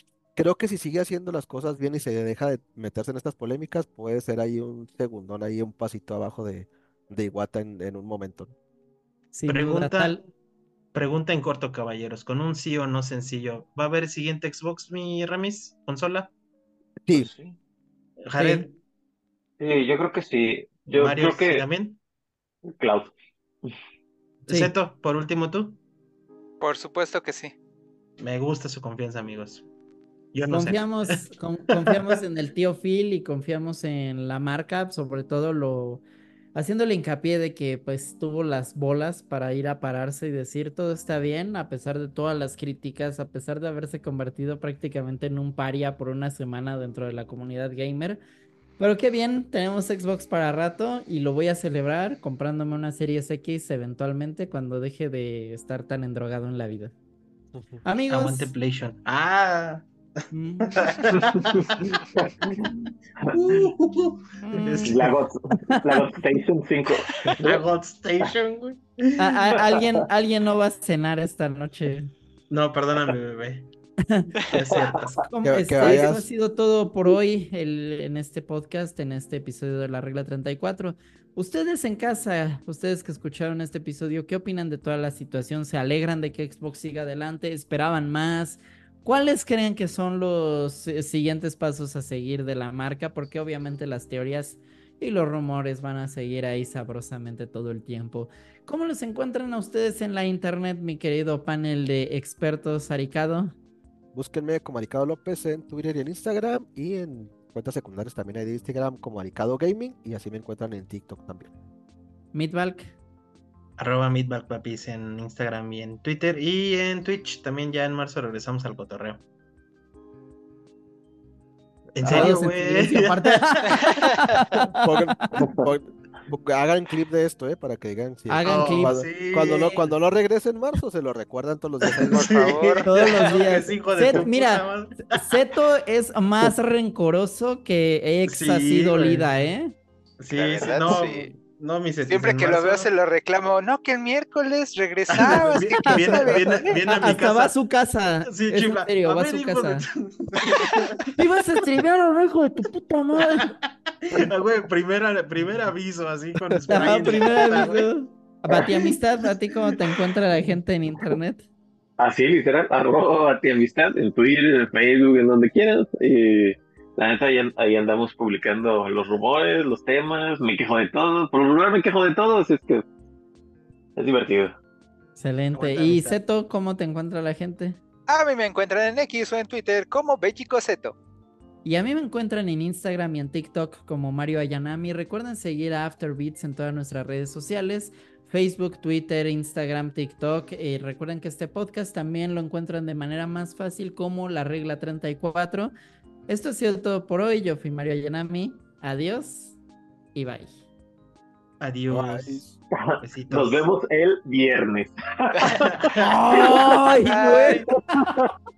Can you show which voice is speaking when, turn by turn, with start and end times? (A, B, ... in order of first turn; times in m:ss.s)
0:00.3-0:08.5 A
0:09.3-0:10.3 B
0:09.5-0:10.2 C
0:10.9-0:16.3 C
0:17.1-0:17.6 D
0:18.2-0:18.8 C
0:18.4-0:18.7 B
0:19.6-0:21.6 D
0:21.0-0:22.0 C
0:22.7-0:23.1 D
0:24.4-0:25.8 C
0:24.5-0:24.7 B
0:26.6-0:27.5 E
0:28.2-0:29.6 C
0:30.3-0:31.2 C
0:30.5-0:36.0 B
0:36.5-0:48.2 B
0:48.8-0:56.9 B
0:57.5-0:57.8 A
0:57.8-0:58.5 B
0:58.1-0:59.9 C
1:00.3-1:00.9 B
1:00.6-1:02.0 C
1:01.2-1:02.6 D
1:02.6-1:02.9 B
1:03.3-1:03.6 D
1:03.3-1:05.1 C
1:04.4-1:05.0 B
1:04.8-1:07.6 D
1:05.5-1:06.0 B
1:07.4-1:09.4 C
1:09.2-1:12.1 B
1:12.5-1:13.7 C
1:14.5-1:15.3 C
1:14.7-1:15.1 D
1:15.3-1:43.5 B
1:15.4-1:16.2 A
1:44.1-1:51.5 A
1:52.3-1:52.9 B
1:53.8-1:59.2 C
2:02.0-2:03.9 C
2:02.0-2:02.4 A
2:02.0-2:05.3 B
2:04.8-2:12.5 A
2:05.4-2:05.6 D
2:08.3-2:09.0 B
2:08.4-2:09.9 C
2:12.0-2:15.4 C
2:12.1-2:12.9 E
2:12.8-2:19.7 B
2:18.3-2:19.3 C
2:20.2-2:22.9 C
2:20.3-2:21.3 E
2:22.1-2:26.8 E
2:25.1-2:27.5 C
2:25.3-2:29.8 B
2:28.3-2:31.0 C
2:31.2-2:33.5 B
2:34.1-2:38.0 C
2:36.5-2:37.2 A
2:36.7-2:41.4 B
2:42.0-2:52.8 D
2:54.0-2:54.6 D
2:55.2-2:57.8 B
2:55.5-2:56.2 C
2:58.1-3:01.0 E
3:01.6-3:15.7 B
3:16.3-3:19.6 B
3:20.1-3:20.6 B
3:21.6-3:22.4 C
3:21.9-3:22.6 A
3:22.7-3:26.7 D
3:23.0-3:23.6 C
3:25.5-3:26.1 C
3:26.0-3:28.2 B
3:27.0-3:27.6 E
3:27.7-3:28.3 D